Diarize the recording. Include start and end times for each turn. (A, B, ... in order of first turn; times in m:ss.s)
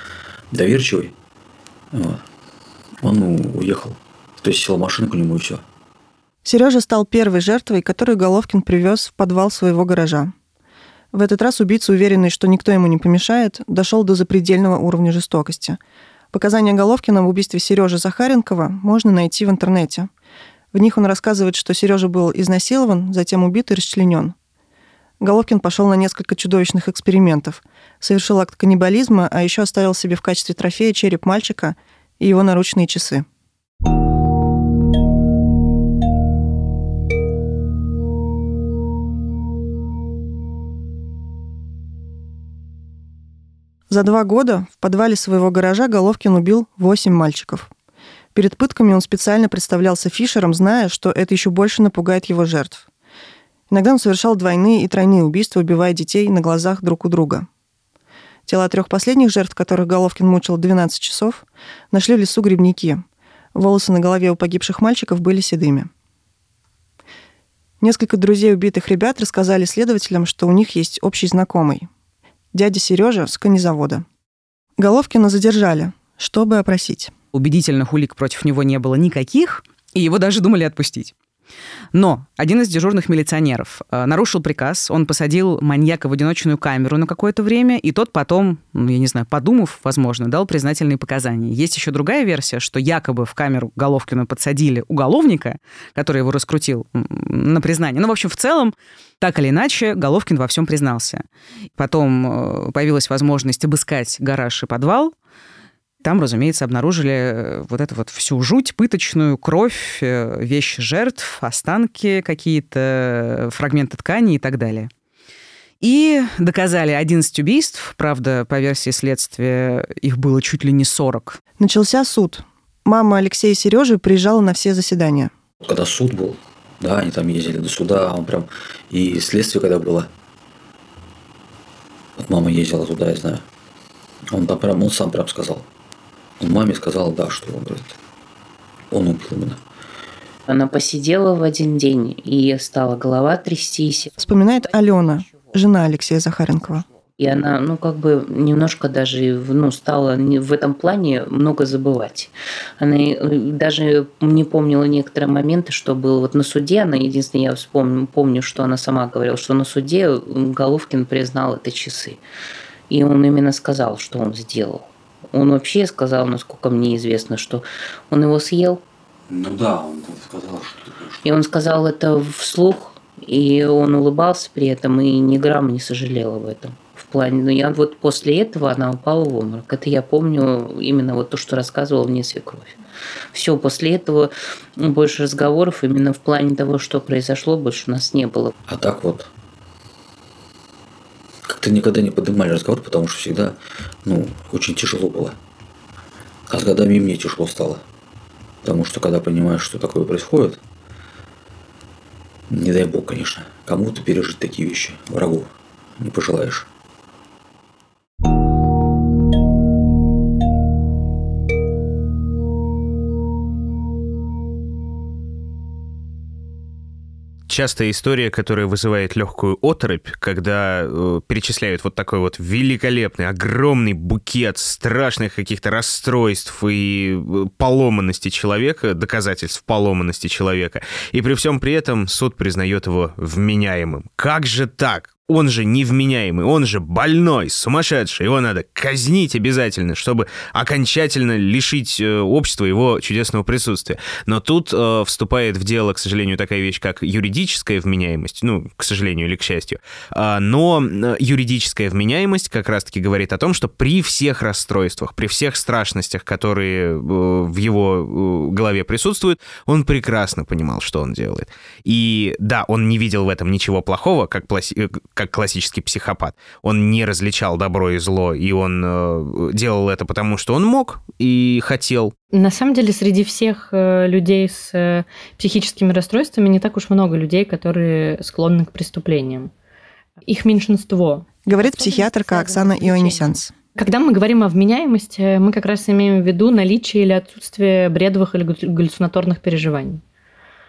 0:00.5-0:01.1 A
0:01.9-0:02.2 A
0:03.0-0:05.6 A
0:06.4-0:10.3 B
0:11.1-0:15.8 B
0:16.3-0:20.1 B
0:20.7-0:24.3 B
0:25.2-0:33.2 B
0:43.9-0:47.7 B
0:48.3-0:52.8 B
0:53.7-0:57.5 B
0:58.5-1:05.9 B
1:07.8-1:11.9 B
1:12.5-1:14.0 B
1:14.8-1:17.1 B
1:17.3-1:21.1 C
1:21.9-1:41.2 C
1:41.8-1:45.1 C
1:46.0-1:54.9 C
1:55.8-2:01.4 C
2:01.6-2:05.3 B
2:05.6-2:10.1 A
2:12.2-2:13.4 A
2:14.3-2:15.6 A
2:16.4-2:18.0 A
2:18.9-2:19.6 A
2:20.5-2:24.2 D
2:24.2-2:26.8 B
2:27.2-2:42.2 D
2:42.9-2:48.8 D
2:49.3-2:51.2 A
2:51.2-3:02.8 D
3:03.3-3:08.5 D
3:08.7-3:09.3 A
3:11.5-3:15.4 A
3:16.5-3:17.8 A
3:18.6-3:20.6 A
3:22.5-3:26.7 A
3:37.5-4:32.1 E
4:32.3-4:39.5 F
4:40.2-4:50.0 F
4:41.5-4:43.5 B